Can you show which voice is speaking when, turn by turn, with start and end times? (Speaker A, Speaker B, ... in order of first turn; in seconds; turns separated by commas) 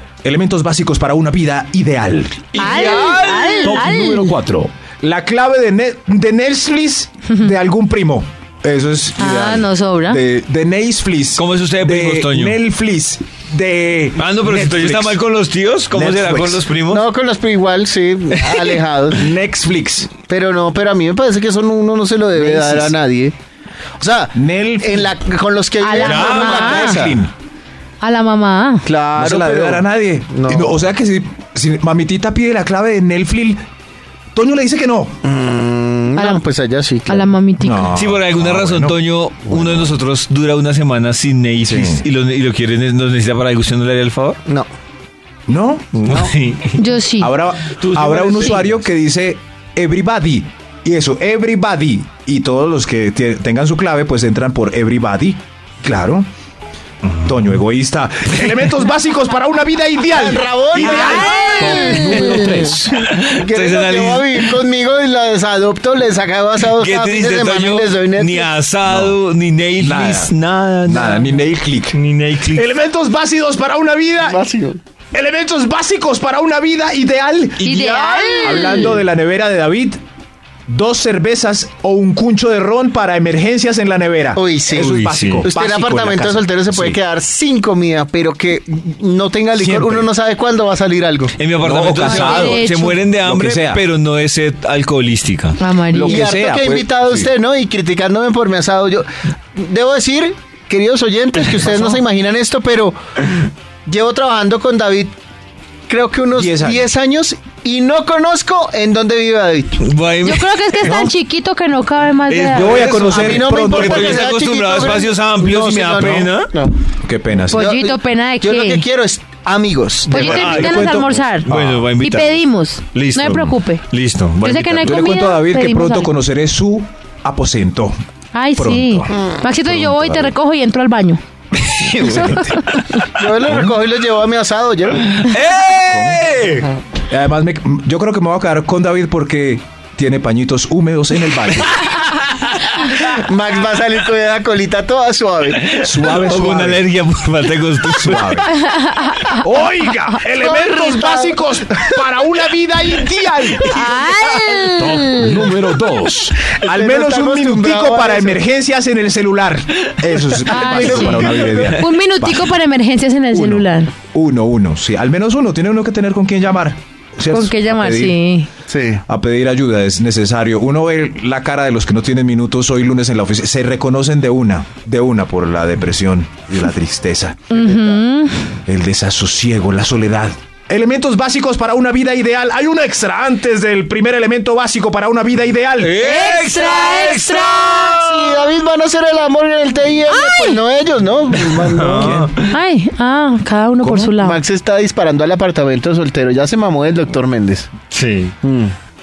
Speaker A: 0.2-2.6, Speaker B: 2.5-4.4, Speaker C: 2.5-4.7, Speaker D: 3.1-3.8, Speaker A: 5.0-15.2, Speaker B: 9.2-10.2, Speaker D: 11.3-12.6, Speaker D: 14.2-17.0, Speaker A: 15.9-16.7, Speaker E: 16.9-19.2, Speaker D: 18.3-18.7, Speaker A: 19.1-20.1, Speaker E: 20.2-23.3, Speaker A: 22.3-22.9, Speaker E: 24.0-27.2, Speaker A: 24.3-25.1, Speaker B: 25.8-27.1, Speaker A: 26.0-27.3, Speaker B: 28.0-28.9, Speaker E: 28.8-30.8, Speaker A: 29.1-33.6, Speaker A: 34.3-35.2, Speaker E: 35.2-37.4, Speaker B: 36.1-36.4, Speaker B: 37.1-37.9, Speaker A: 37.6-40.0, Speaker D: 37.9-44.4, Speaker A: 41.6-42.0, Speaker A: 45.5-46.2, Speaker D: 45.9-46.9, Speaker B: 46.8-47.3, Speaker A: 47.2-56.3, Speaker D: 47.6-48.8, Speaker D: 57.0-57.3, Speaker A: 57.2-61.4, Speaker E: 60.1-62.3, Speaker B: 61.0-62.7, Speaker C: 61.2-63.0, Speaker D: 62.9-64.5, Speaker E: 63.2-68.5, Speaker D: 66.6-71.4, Speaker A: 68.8-69.2, Speaker A: 69.8-72.0, Speaker D: 71.9-72.7, Speaker A: 72.5-74.4, Speaker E: 74.2-74.8, Speaker A: 75.1-77.7, Speaker B: 77.6-79.0, Speaker D: 77.7-78.1, Speaker A: 78.3-80.0, Speaker E: 78.7-79.0, Speaker A: 80.7-87.0, Speaker E: 84.3-91.3, Speaker D: 84.7-85.4, Speaker A: 89.5-90.1, Speaker D: 91.4-95.6, Speaker A: 91.6-93.8, Speaker B: 92.0-93.0, Speaker B: 95.6-96.2, Speaker A: 95.9-97.3, Speaker E: 96.0-105.1, Speaker A: 101.7-102.0, Speaker E: 105.9-109.8, Speaker A: 106.3-106.9, Speaker D: 109.8-111.1, Speaker B: 110.2-112.8, Speaker A: 110.8-111.1, Speaker D: 112.3-116.5, Speaker A: 112.5-114.2, Speaker E: 112.8-116.8, Speaker A: 116.0-116.3, Speaker A: 117.0-117.6, Speaker E: 117.4-120.3, Speaker B: 117.5-118.8, Speaker B: 120.1-123.8, Speaker A: 120.1-121.9, Speaker D: 120.3-124.9, Speaker B: 124.4-126.1, Speaker A: 124.8-128.0, Speaker B: 128.3-131.2, Speaker A: 128.6-130.3, Speaker E: 129.1-129.4, Speaker D: 131.6-132.9, Speaker A: 132.0-132.6, Speaker E: 133.1-135.1, Speaker A: 133.4-133.8, Speaker D: 135.1-136.7, Speaker A: 135.9-136.2, Speaker A: 137.1-141.8, Speaker E: 143.0-145.8, Speaker D: 145.6-148.4, Speaker A: 145.8-146.8, Speaker A: 147.9-148.6, Speaker B: 148.5-149.4, Speaker A: 149.4-153.8, Speaker E: 150.4-151.9, Speaker B: 153.6-155.5, Speaker C: 154.7-156.4, Speaker E: 156.4-158.4, Speaker A: 156.6-162.6, Speaker B: 160.3-163.9, Speaker E: 160.6-161.7, Speaker A: 163.3-168.2, Speaker B: 167.3-168.5, Speaker E: 168.7-169.0, Speaker A: 169.1-178.0, Speaker B: 177.5-178.6, Speaker A: 178.7-185.9, Speaker D: 185.8-188.5, Speaker B: 186.0-188.0, Speaker E: 187.9-192.2, Speaker B: 190.1-190.6, Speaker D: 191.3-192.6, Speaker A: 192.0-192.3, Speaker B: 192.4-194.4, Speaker E: 193.8-197.7, Speaker D: 197.9-198.3, Speaker E: 198.4-198.7